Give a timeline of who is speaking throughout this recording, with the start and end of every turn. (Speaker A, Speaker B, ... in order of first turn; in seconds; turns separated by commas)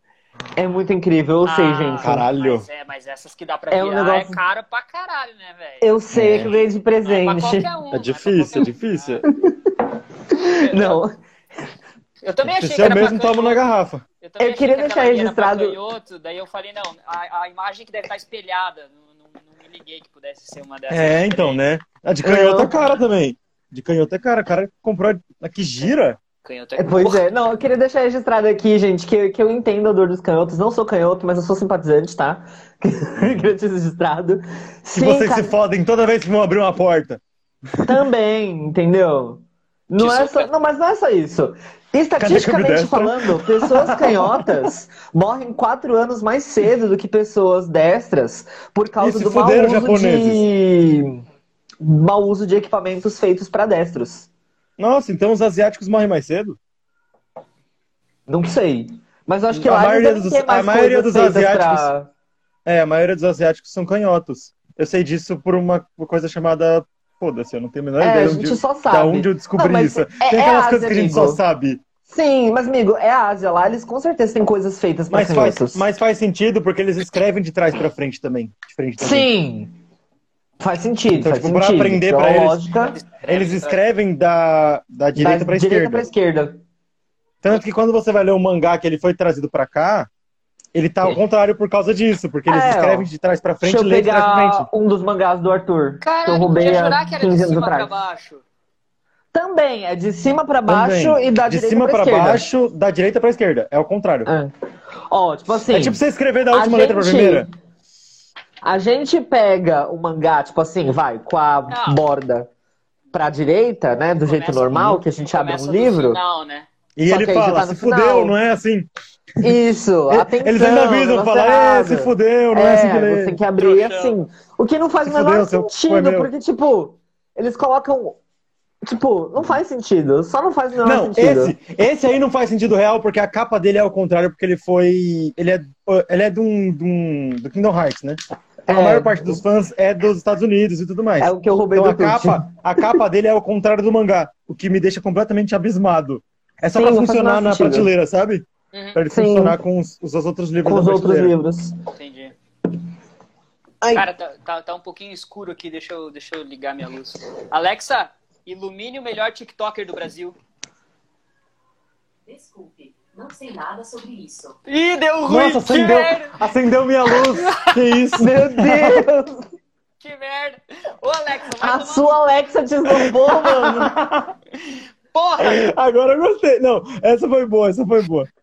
Speaker A: 0.6-2.2, Speaker B: 1.4-9.2, Speaker C: 2.0-2.7, Speaker A: 3.7-4.4, Speaker A: 5.8-7.7, Speaker C: 6.1-6.5, Speaker C: 7.9-9.2, Speaker A: 10.3-11.1, Speaker B: 10.5-11.0, Speaker B: 12.2-13.6, Speaker C: 12.4-14.0, Speaker B: 14.2-21.6, Speaker A: 14.4-15.8, Speaker C: 20.9-26.2, Speaker A: 22.2-22.7, Speaker B: 26.4-27.2, Speaker A: 26.8-35.5, Speaker C: 34.9-37.2, Speaker A: 37.8-51.2, Speaker B: 40.0-40.5, Speaker C: 42.2-44.5, Speaker C: 49.0-50.4, Speaker A: 51.8-54.3, Speaker C: 54.8-56.6, Speaker A: 58.3-62.1, Speaker C: 59.5-61.9, Speaker C: 62.6-71.8, Speaker A: 68.0-71.4, Speaker A: 72.1-75.8, Speaker C: 75.1-79.3, Speaker A: 79.0-79.8, Speaker A: 80.6-83.0, Speaker C: 81.2-82.7, Speaker B: 82.8-83.8, Speaker C: 83.2-86.1, Speaker A: 85.2-86.6, Speaker C: 87.4-90.1, Speaker C: 90.7-94.7, Speaker A: 92.5-93.1, Speaker A: 93.6-98.0, Speaker B: 96.0-98.4, Speaker A: 99.3-102.5, Speaker C: 100.7-104.3, Speaker A: 104.3-104.5, Speaker A: 105.1-106.0, Speaker C: 105.7-107.5, Speaker A: 106.5-107.5, Speaker A: 108.6-112.5, Speaker B: 111.7-112.0, Speaker A: 113.1-116.2, Speaker B: 114.2-116.7, Speaker C: 117.0-118.9, Speaker A: 117.1-118.3, Speaker A: 119.4-128.2, Speaker C: 120.1-123.4, Speaker B: 123.6-124.2, Speaker C: 125.0-126.3, Speaker A: 128.8-131.6, Speaker C: 130.8-151.3, Speaker A: 138.7-139.4, Speaker A: 141.2-143.0, Speaker A: 146.8-147.9, Speaker B: 148.7-149.0, Speaker A: 149.1-149.6, Speaker A: 150.6-151.8, Speaker B: 151.9-152.3, Speaker A: 153.8-154.1, Speaker B: 153.9-160.3, Speaker D: 162.3-164.6, Speaker B: 164.7-166.4, Speaker C: 165.3-169.3, Speaker B: 167.1-167.8, Speaker A: 168.2-169.3, Speaker B: 170.0-172.2, Speaker A: 171.6-173.9, Speaker C: 173.1-174.4, Speaker B: 174.7-175.7, Speaker C: 175.4-178.3